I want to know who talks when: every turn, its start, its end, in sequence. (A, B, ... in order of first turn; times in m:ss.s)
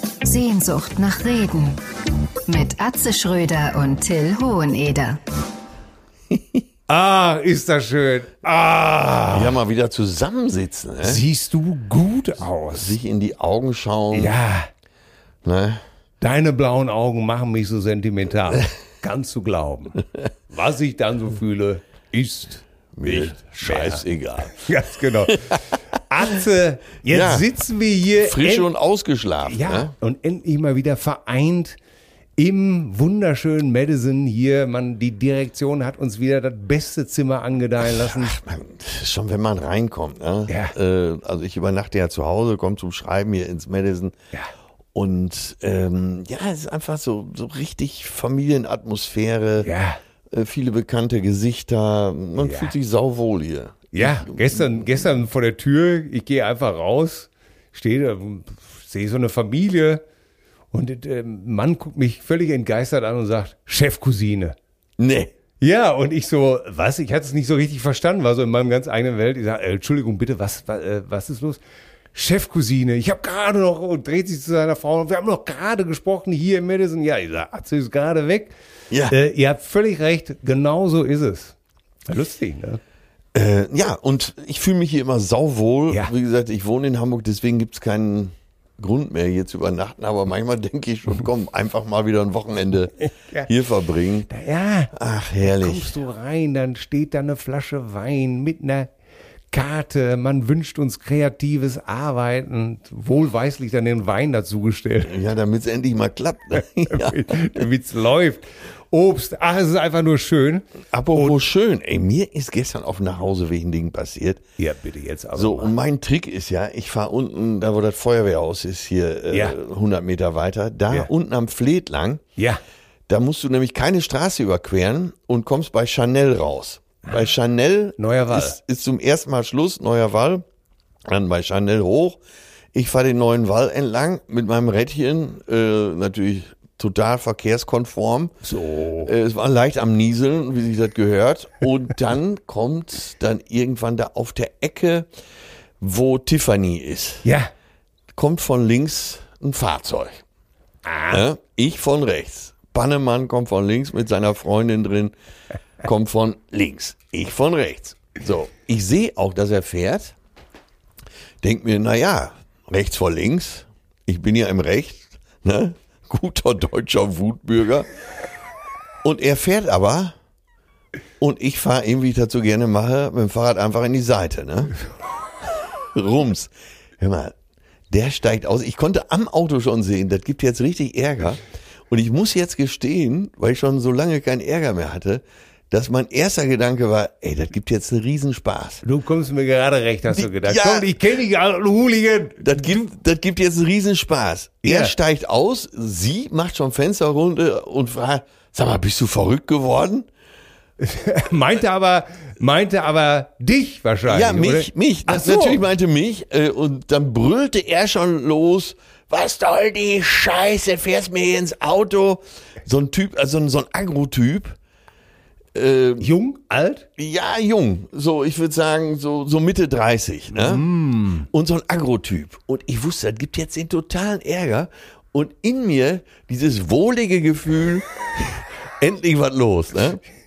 0:00.2-0:01.8 A
0:02.5-0:05.2 A
0:06.3-0:06.6 B
0:06.9-0:09.6 C
0:09.3-0:11.2 B
0:11.0-0:13.0 C
0:12.7-0:14.3 B
0:14.1-0:14.7 C
0:15.4-0:15.8 B
0:16.2-0:28.7 C
0:23.0-0:24.6 B
0:27.1-0:27.5 B
0:28.2-0:29.9 B
0:29.4-0:31.8 C
0:32.4-0:38.4 C
0:37.8-0:44.1 B
0:40.5-0:40.7 C
0:44.9-0:49.7 B
0:49.6-0:50.0 C
0:50.3-0:55.0 B
0:52.4-0:52.7 C
0:53.9-1:00.0 C
1:00.7-1:04.6 C
1:05.0-1:05.3 B
1:05.6-1:11.6 C
1:12.1-1:18.5 C
1:18.9-1:19.2 B
1:19.1-1:21.6 C
1:22.1-1:22.8 C
1:23.3-1:34.3 B
1:33.0-1:33.5 C
1:34.3-1:38.9 C
1:34.9-1:35.9 B
1:39.5-1:45.2 C
1:45.0-1:47.6 B
1:46.9-1:51.4 C
1:50.9-1:54.4 B
1:54.6-1:55.7 C
1:55.4-2:02.2 B
1:59.3-1:59.6 C
2:03.1-2:10.4 B
2:08.0-2:08.6 C
2:11.1-2:12.2 B
2:12.7-2:18.3 B
2:18.4-2:19.1 C
2:19.0-2:25.1 B
2:25.8-2:27.2 B
2:27.2-2:27.5 C
2:28.1-2:30.2 B
2:30.8-2:31.2 C
2:31.1-2:35.1 B
2:35.8-2:40.1 B
2:41.4-2:47.9 B
2:49.0-2:50.1 B
2:51.2-2:54.8 B
2:55.7-2:57.4 B
2:57.9-3:08.8 B
3:08.8-3:12.5 C
3:10.1-3:10.9 B
3:12.4-3:20.1 B
3:14.6-3:14.9 C
3:20.8-3:25.6 C
3:24.0-3:34.6 B
3:35.5-3:36.1 B
3:36.0-3:36.8 C
3:37.0-3:40.7 B
3:40.3-3:41.3 C
3:41.3-3:50.0 B